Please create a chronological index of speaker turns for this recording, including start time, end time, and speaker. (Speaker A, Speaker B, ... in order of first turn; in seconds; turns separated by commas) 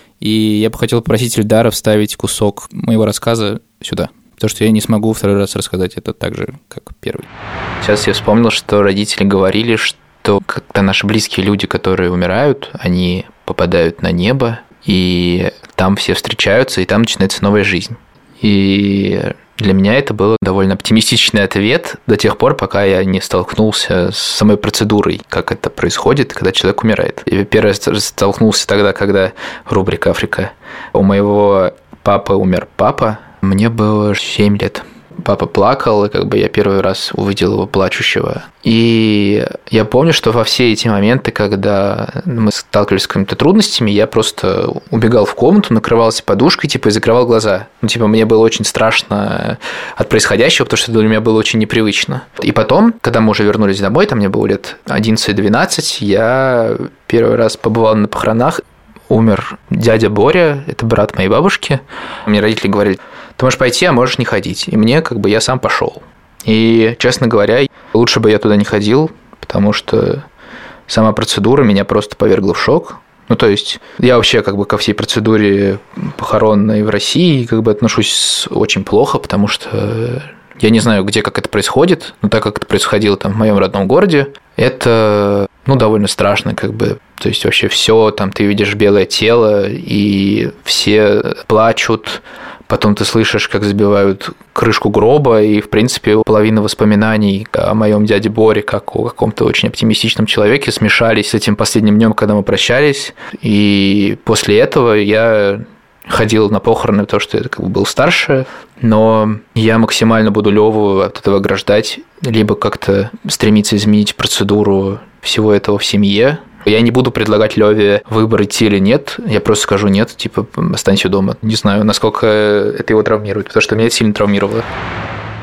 Speaker A: 0.2-7.3, Speaker A: 7.8-70.2, Speaker A: 70.9-124.7